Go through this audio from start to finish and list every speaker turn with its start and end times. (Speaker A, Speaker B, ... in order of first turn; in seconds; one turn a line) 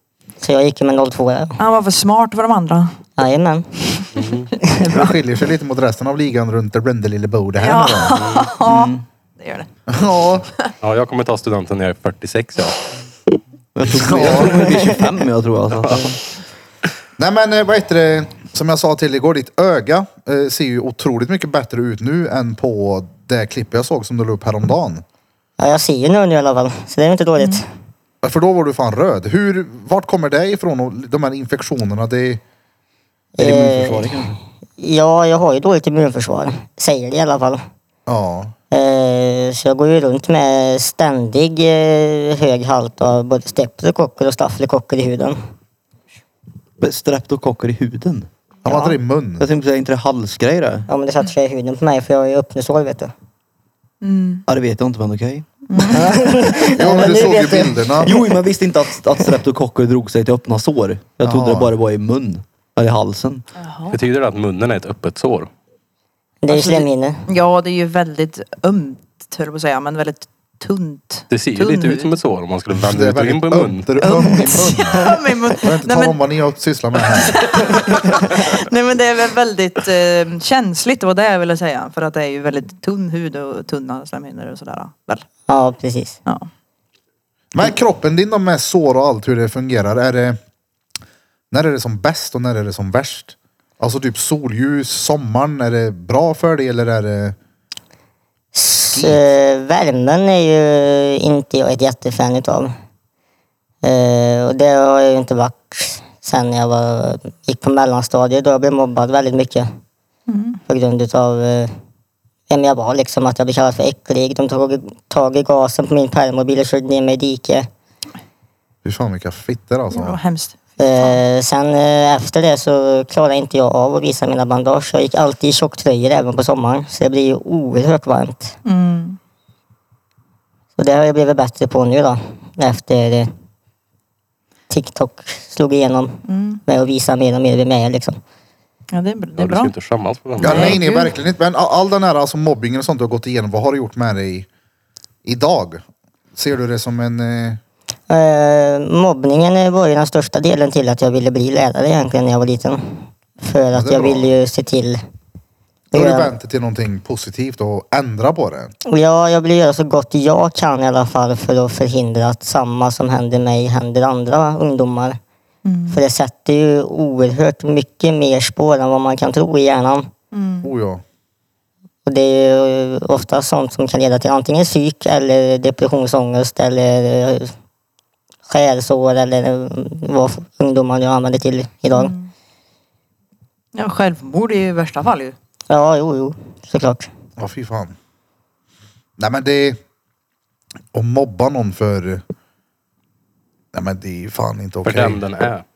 Speaker A: 0.4-1.6
Speaker B: 1.6-2.9
Speaker A: 3.2-3.7
Speaker C: 4.1-4.5
Speaker B: 4.2-5.1
Speaker D: 4.9-8.2
Speaker B: 7.6-9.7
Speaker C: 8.2-8.6
Speaker E: 8.7-9.0
Speaker D: 9.9-10.5
Speaker C: 10.8-12.8
Speaker E: 13.8-16.2
Speaker D: 13.9-14.6
Speaker D: 17.2-25.0
Speaker A: 25.6-27.6
Speaker D: 28.2-32.4
Speaker A: 33.4-34.2
Speaker E: 33.4-34.4
Speaker A: 34.8-37.6
Speaker D: 38.1-38.5
Speaker A: 38.7-45.4
Speaker E: 46.8-48.3
Speaker D: 48.6-49.5
Speaker A: 48.7-48.9
Speaker E: 49.4-50.9
Speaker A: 50.9-53.1
Speaker B: 54.0-54.5
Speaker E: 54.5-56.1
Speaker B: 55.7-56.2
Speaker A: 55.9-58.2
Speaker D: 56.8-58.1
Speaker E: 56.9-57.4
Speaker E: 58.0-63.5
Speaker D: 61.2-61.7
Speaker B: 63.6-64.0
Speaker C: 63.9-65.5
Speaker A: 66.4-67.2
Speaker B: 66.5-72.2
Speaker C: 71.3-73.9
Speaker D: 72.8-77.6
Speaker B: 74.0-76.2
Speaker B: 77.0-85.2
Speaker A: 85.5-86.2
Speaker D: 87.5-90.4
Speaker D: 91.5-97.4
Speaker A: 98.5-102.7
Speaker D: 98.9-99.3
Speaker A: 103.8-109.7
Speaker B: 110.3-110.6
Speaker A: 110.7-111.7
Speaker A: 112.5-117.7
Speaker D: 118.8-120.2
Speaker B: 119.9-121.2
Speaker A: 120.8-128.6
Speaker B: 128.7-129.2
Speaker A: 130.8-133.3
Speaker A: 134.7-138.2
Speaker B: 136.3-136.6
Speaker B: 138.9-139.7
Speaker C: 139.4-140.8
Speaker B: 140.4-141.1
Speaker D: 140.4-144.5
Speaker D: 145.2-145.8
Speaker D: 146.3-147.6
Speaker A: 148.1-155.0
Speaker D: 153.7-154.3
Speaker A: 155.9-156.3
Speaker D: 155.9-158.7
Speaker A: 158.9-165.2
Speaker B: 165.7-166.0
Speaker A: 165.9-170.1
Speaker B: 170.3-170.7
Speaker D: 170.6-171.0
Speaker A: 172.1-177.5
Speaker A: 178.5-182.1
Speaker B: 181.9-182.3
Speaker B: 183.8-185.4
Speaker A: 185.7-187.1
Speaker D: 187.4-188.0
Speaker D: 189.2-189.8
Speaker D: 190.9-192.2
Speaker D: 193.7-195.3
Speaker C: 194.8-195.6